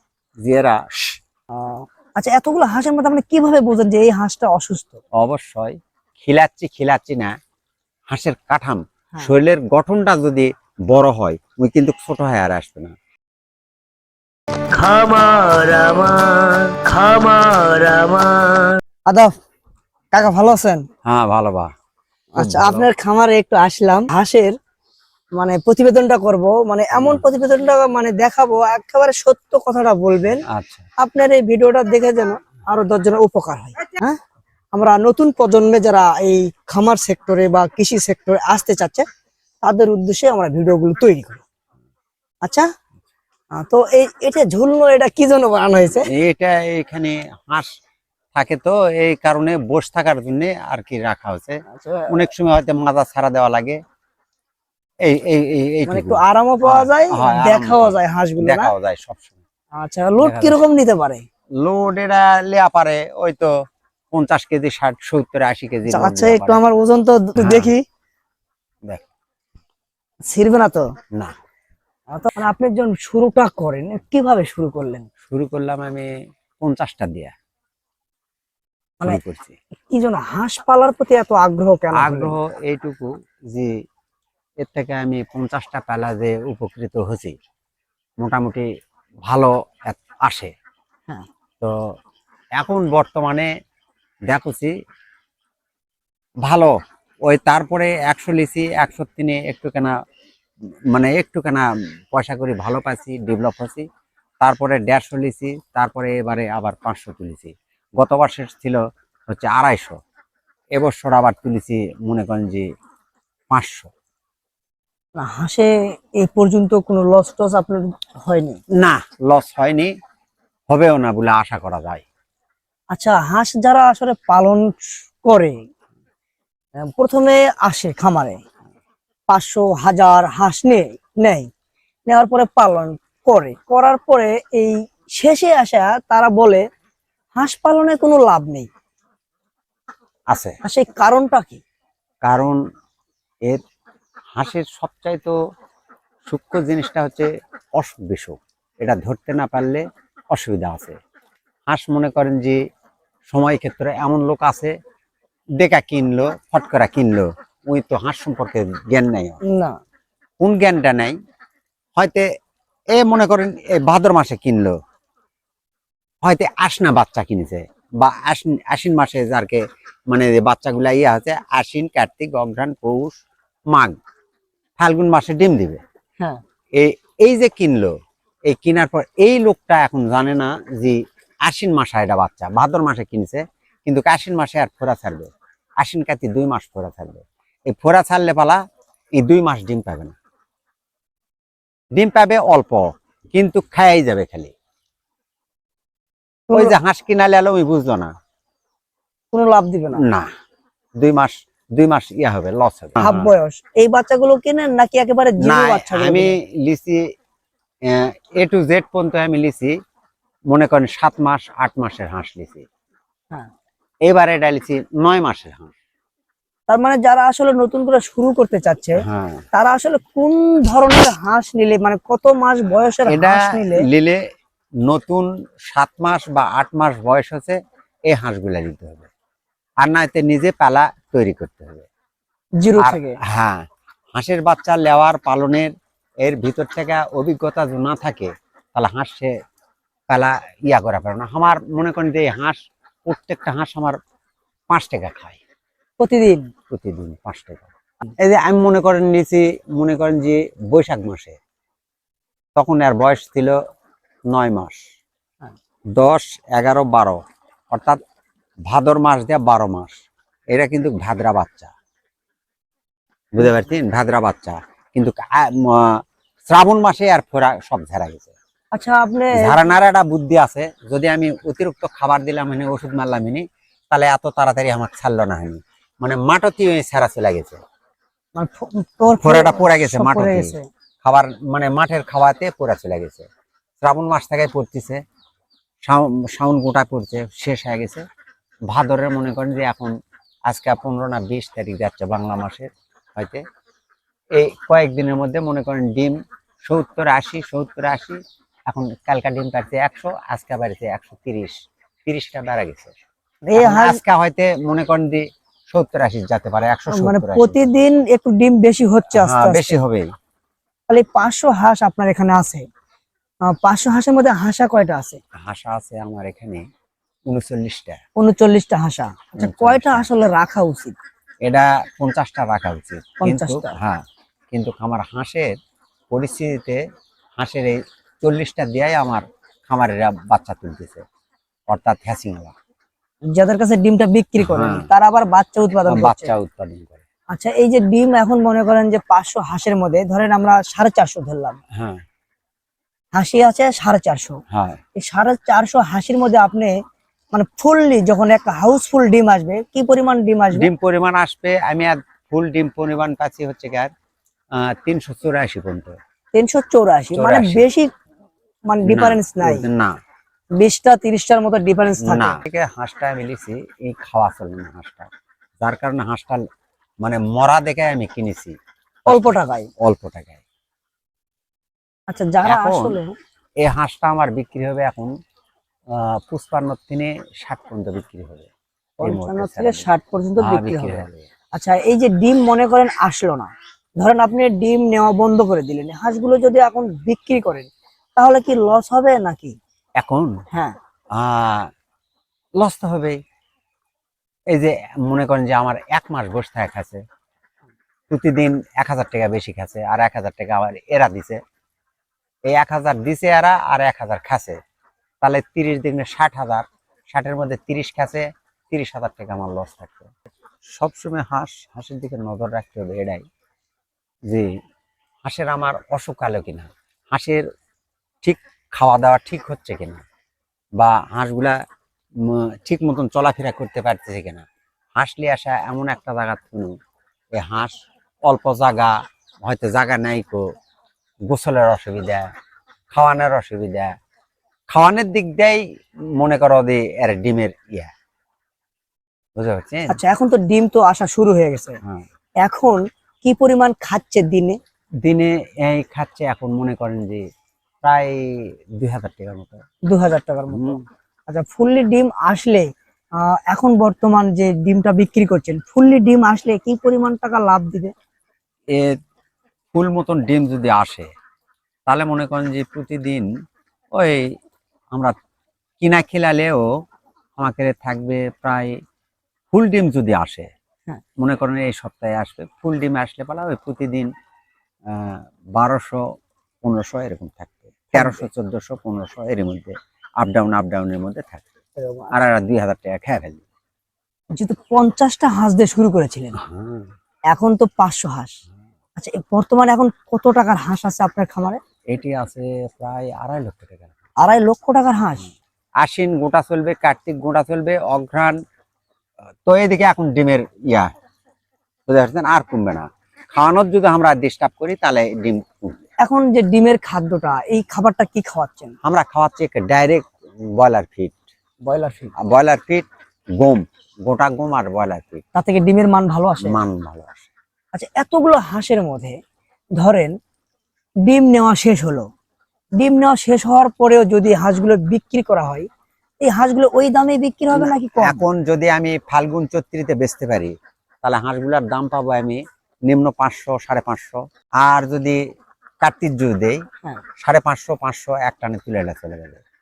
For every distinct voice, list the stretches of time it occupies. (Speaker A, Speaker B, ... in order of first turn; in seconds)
Speaker A: 0.4-1.2, 5.2-7.3, 8.1-12.9, 21.1-21.7, 22.4-22.9, 26.9-27.2, 30.5-30.9, 46.1-47.7, 48.3-53.8, 55.0-59.4, 60.2-60.6, 61.6-63.5, 64.1-66.6, 67.4-67.7, 75.3-77.3, 79.0-79.6, 81.9-83.8, 84.6-87.3, 88.2-88.7, 89.2-90.5, 92.6-93.5, 94.3-94.7, 96.4-96.7, 97.2-99.9, 100.9-103.9, 104.4-110.0, 110.8-112.7, 113.5-113.9, 118.7-119.9, 120.7-122.0, 140.3-140.6, 142.2-142.6, 144.3-145.3, 146.2-151.0, 151.7-152.6, 153.3-154.7, 155.6-159.4, 160.4-161.2, 161.9-162.2, 162.9-164.8, 166.2-173.9, 174.8-175.8, 176.7-177.9, 178.5-188.6, 189.2-190.2, 191.9-194.5, 196.5-198.1, 200.0-200.3, 201.0-203.3, 205.4-207.1, 207.8-209.7, 210.5-212.7, 214.1-215.7, 219.0-219.4, 223.1-224.2, 224.8-229.1, 229.8-231.9, 232.8-239.3, 240.1-244.0, 244.7-245.4, 246.7-251.4, 252.5-253.6, 254.3-254.8, 256.0-257.2, 257.7-258.0, 258.7-260.0, 260.5-261.7, 263.3-268.3, 269.4-277.6, 279.2-283.3, 283.8-285.0, 285.8-288.0, 288.7-289.9, 290.5-293.4, 294.3-302.9, 303.6-307.6, 309.1-310.1, 315.4-316.6, 317.3-318.0, 319.4-320.1, 321.4-325.5, 326.1-326.8, 327.4-331.0, 331.7-332.5, 334.4-334.9, 335.9-337.0, 341.7-342.0, 344.5-344.8, 350.5-353.9, 354.5-356.0, 357.1-357.7, 358.8-359.9, 362.0-365.1, 365.6-366.4, 367.0-370.4, 372.4-373.0, 373.6-375.1, 375.9-378.5, 379.0-379.9, 380.4-381.3, 390.0-390.3, 391.1-391.7, 392.6-393.2, 394.5-397.0, 398.1-401.4, 402.4-404.6, 405.2-410.1, 410.6-413.2, 415.2-417.4, 418.2-420.0, 420.8-421.6, 422.2-424.4, 425.0-426.8, 427.3-427.7, 428.2-430.4, 431.3-432.3, 432.9-433.9, 434.7-435.6, 436.2-437.9, 439.4-440.0, 445.0-447.2, 447.8-449.6, 450.5-450.8, 458.7-459.0, 459.7-461.1, 461.9-463.3, 463.9-464.3, 465.8-466.6, 467.4-468.8, 469.5-470.5, 471.2-474.1, 474.9-476.0, 476.6-481.4, 482.1-483.4, 486.4-486.9, 491.9-493.9, 495.8-498.4, 499.4-500.9, 501.9-505.8, 508.8-511.2, 512.2-515.2, 516.4-517.3, 527.5-535.2, 535.8-536.6, 537.2-539.4
Speaker B: 1.5-5.0, 14.7-19.3, 20.1-20.9, 22.3-24.5, 25.4-30.4, 31.0-34.2, 34.7-39.0, 39.6-41.4, 42.4-42.7, 43.5-46.1, 51.7-52.2, 55.9-58.7, 59.8-61.2, 65.9-67.8, 70.2-70.9, 72.1-75.1, 79.8-82.3, 115.2-118.6, 122.9-125.6, 126.8-128.4, 129.3-131.5, 132.1-136.6, 137.3-138.7, 140.6-141.6, 159.4-159.8, 196.5-196.8, 199.3-200.0, 203.0-206.3, 216.7-223.9, 232.6-233.2, 246.0-246.5, 268.7-269.5, 278.4-280.6, 303.4-304.0, 306.9-309.8, 310.9-312.6, 313.4-315.2, 318.2-321.0, 323.2-323.8, 333.3-336.3, 337.3-341.6, 343.1-344.4, 344.9-346.8, 347.3-350.7, 356.3-357.9, 358.7-359.6, 360.6-362.4, 369.1-369.7, 372.1-373.1, 379.0-389.6, 439.9-441.8, 442.4-444.6, 449.9-452.7, 453.2-457.9, 477.9-478.3, 481.8-482.1, 484.3-486.4, 487.3-488.4, 489.0-491.6, 494.2-495.3, 506.0-508.7, 511.6-512.1, 515.3-516.6, 517.7-519.2, 519.8-520.1, 521.0-522.0, 522.8-525.7, 526.2-528.2